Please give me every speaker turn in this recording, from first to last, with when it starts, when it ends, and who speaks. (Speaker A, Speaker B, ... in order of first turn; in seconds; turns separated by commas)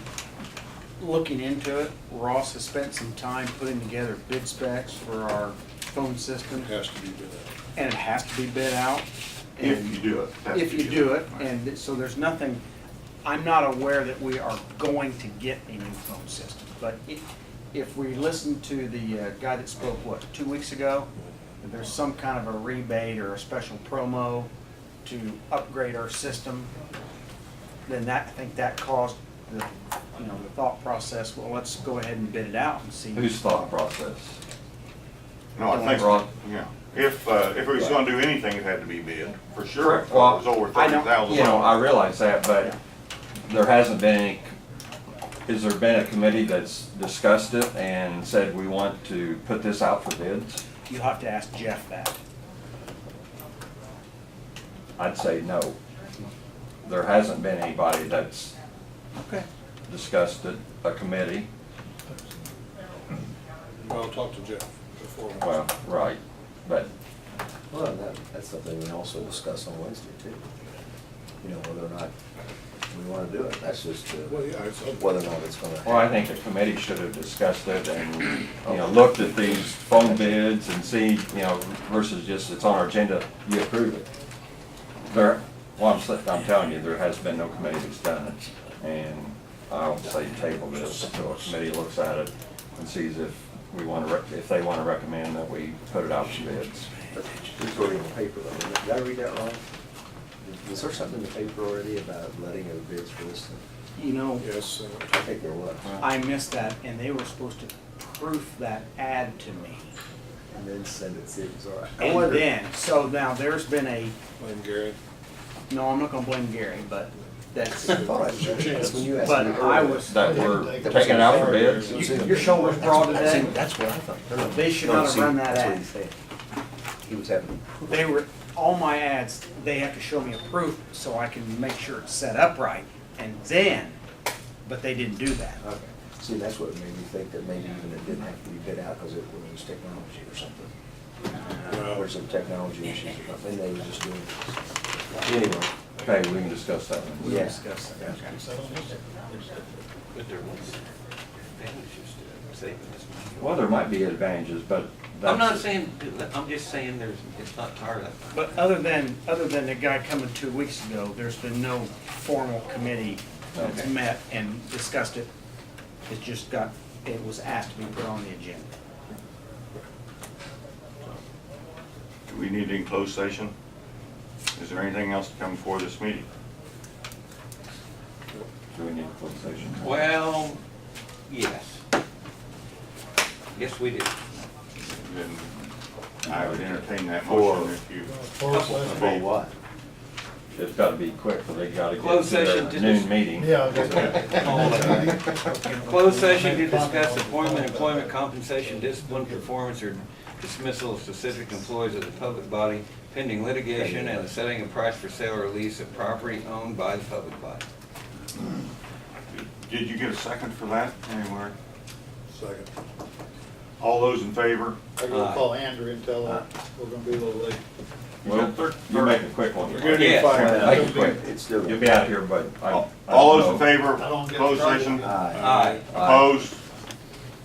Speaker A: 1.0-6.7, Speaker B: 6.6-7.5, Speaker A: 7.8-12.6, Speaker C: 9.6-11.5, Speaker A: 13.2-21.1, Speaker A: 21.6-24.5, Speaker A: 25.1-26.7, Speaker A: 27.9-33.3, Speaker D: 33.1-34.4, Speaker C: 35.5-41.8, Speaker A: 35.7-36.1, Speaker D: 35.9-36.2, Speaker D: 39.8-40.5, Speaker A: 40.7-41.4, Speaker D: 41.2-42.7, Speaker D: 43.5-44.5, Speaker D: 45.5-50.6, Speaker A: 50.9-52.2, Speaker D: 55.0-55.8, Speaker D: 56.9-58.5, Speaker D: 59.9-61.5, Speaker B: 63.8-65.4, Speaker D: 65.4-66.9, Speaker E: 67.7-70.4, Speaker E: 71.4-72.1, Speaker E: 72.9-76.2, Speaker B: 74.3-75.0, Speaker D: 75.8-84.1, Speaker E: 79.0-79.3, Speaker E: 80.0-80.4, Speaker D: 85.1-96.9, Speaker F: 96.2-97.8, Speaker E: 97.1-99.6, Speaker E: 100.4-103.6, Speaker A: 104.0-104.5, Speaker B: 104.4-104.9, Speaker E: 105.1-105.9, Speaker A: 106.0-109.9, Speaker E: 110.5-112.5, Speaker A: 112.0-114.2, Speaker B: 114.4-114.9, Speaker A: 115.7-118.2, Speaker E: 117.6-126.1, Speaker G: 118.5-119.1, Speaker A: 119.1-120.5, Speaker D: 120.1-122.0, Speaker G: 120.2-123.5, Speaker A: 121.8-123.5, Speaker A: 124.4-125.9, Speaker E: 127.0-128.1, Speaker A: 127.9-134.0, Speaker A: 134.7-135.6, Speaker E: 135.6-140.7, Speaker E: 141.7-144.6, Speaker E: 145.1-145.7, Speaker D: 145.3-147.5, Speaker A: 147.2-148.9, Speaker E: 147.2-147.6, Speaker G: 148.0-149.7, Speaker F: 150.1-150.8, Speaker F: 151.5-153.6, Speaker D: 153.4-155.7, Speaker F: 155.2-158.6, Speaker A: 158.3-165.3, Speaker D: 163.6-163.9, Speaker A: 166.1-168.7, Speaker C: 172.3-173.5, Speaker C: 174.6-176.3, Speaker D: 178.7-180.1, Speaker F: 179.8-180.6, Speaker F: 181.3-181.8, Speaker F: 183.6-184.1, Speaker C: 184.8-188.1, Speaker D: 186.3-186.8, Speaker E: 187.2-187.8, Speaker G: 188.0-189.2, Speaker F: 188.5-189.1, Speaker C: 188.9-189.2, Speaker E: 188.9-189.5, Speaker D: 190.6-194.4, Speaker F: 191.9-207.6, Speaker G: 193.3-198.1, Speaker G: 198.9-199.5, Speaker E: 203.7-204.2, Speaker C: 209.3-211.6, Speaker G: 212.3-212.7, Speaker C: 213.8-214.9, Speaker G: 215.0-217.6, Speaker F: 215.1-215.5, Speaker C: 218.2-219.3, Speaker D: 218.2-223.8, Speaker B: 219.7-220.4, Speaker F: 219.8-220.7, Speaker E: 220.3-221.9, Speaker G: 220.6-221.1, Speaker C: 222.7-225.2, Speaker G: 223.9-225.3, Speaker E: 225.0-225.5, Speaker F: 225.4-225.9, Speaker D: 225.9-226.3, Speaker C: 225.9-226.6